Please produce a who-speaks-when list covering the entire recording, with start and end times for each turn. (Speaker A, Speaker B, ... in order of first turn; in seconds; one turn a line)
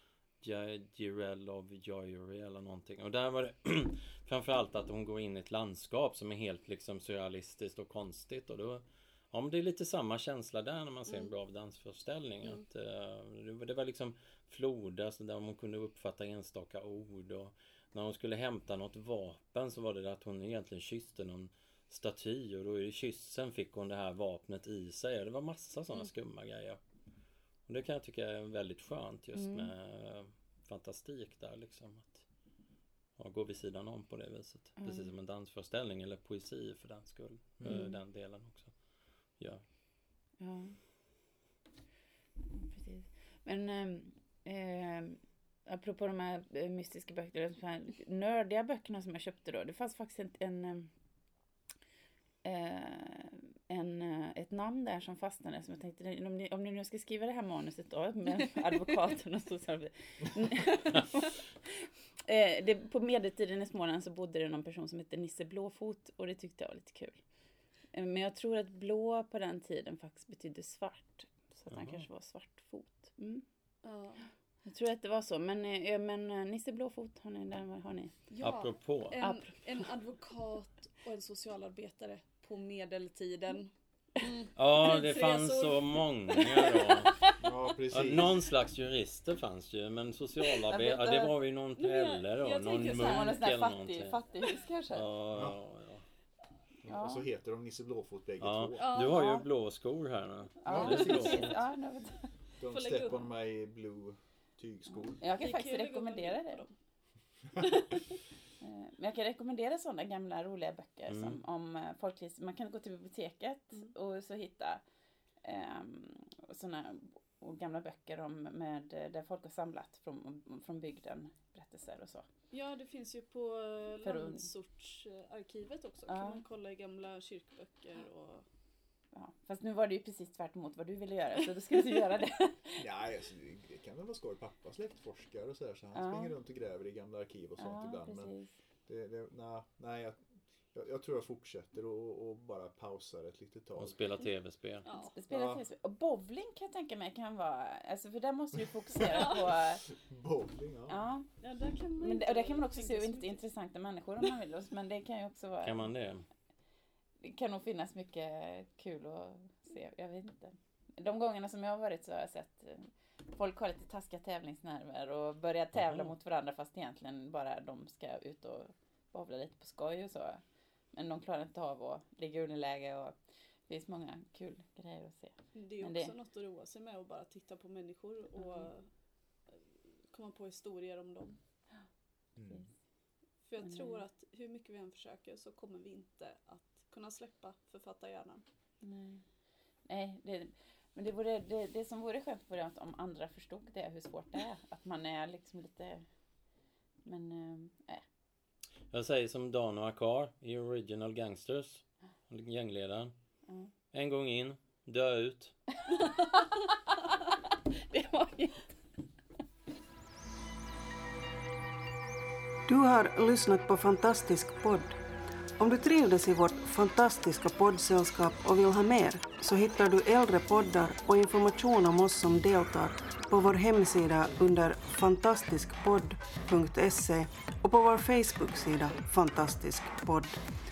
Speaker A: 0.4-26.8
Speaker A: 27.7-32.2
Speaker B: 29.3-29.7
Speaker A: 33.1-38.8
Speaker B: 34.8-35.1
Speaker C: 37.6-37.9
Speaker B: 37.6-38.0
Speaker A: 39.4-39.6
Speaker B: 40.4-40.8
Speaker B: 42.5-50.9
Speaker B: 52.4-67.2
Speaker B: 67.9-73.4
Speaker A: 71.7-72.0
Speaker D: 73.8-74.2
Speaker B: 74.6-78.1
Speaker D: 78.3-87.2
Speaker A: 78.4-79.2
Speaker B: 79.2-79.5
Speaker A: 84.5-87.2
Speaker C: 87.4-88.4
Speaker A: 87.9-94.2
Speaker B: 90.7-91.3
Speaker D: 91.8-93.4
Speaker B: 92.8-95.1
Speaker A: 94.9-96.0
Speaker C: 95.3-95.6
Speaker C: 96.8-98.9
Speaker B: 96.9-97.3
Speaker A: 98.4-101.6
Speaker D: 98.8-99.4
Speaker B: 99.0-99.5
Speaker B: 100.6-102.3
Speaker C: 100.7-101.5
Speaker D: 100.7-101.2
Speaker C: 102.6-105.2
Speaker D: 102.7-103.3
Speaker B: 105.2-106.6
Speaker D: 105.4-106.7
Speaker D: 107.6-108.1
Speaker B: 108.6-114.8
Speaker A: 111.1-111.4
Speaker B: 115.4-122.2
Speaker D: 122.5-128.4
Speaker B: 124.0-124.5
Speaker B: 126.1-126.4
Speaker B: 129.1-132.8
Speaker C: 132.8-138.3
Speaker B: 135.9-136.3
Speaker B: 137.6-138.5
Speaker C: 138.8-144.0
Speaker A: 143.8-144.9
Speaker D: 144.8-145.1
Speaker B: 145.0-149.8
Speaker C: 145.3-145.6
Speaker C: 148.9-151.0
Speaker D: 149.1-149.4
Speaker B: 150.9-151.3
Speaker D: 151.4-153.4
Speaker B: 152.0-155.9
Speaker A: 155.6-156.2
Speaker B: 157.2-170.4
Speaker B: 170.9-176.1
Speaker D: 175.5-178.9
Speaker B: 178.4-178.7
Speaker D: 180.1-181.4
Speaker C: 182.3-182.7
Speaker D: 183.4-188.4
Speaker B: 183.6-184.0
Speaker B: 188.8-189.2
Speaker B: 189.8-196.1
Speaker B: 197.0-198.0
Speaker A: 198.9-203.1
Speaker A: 203.9-205.6
Speaker B: 207.9-208.6
Speaker E: 212.7-214.9
Speaker E: 215.6-230.4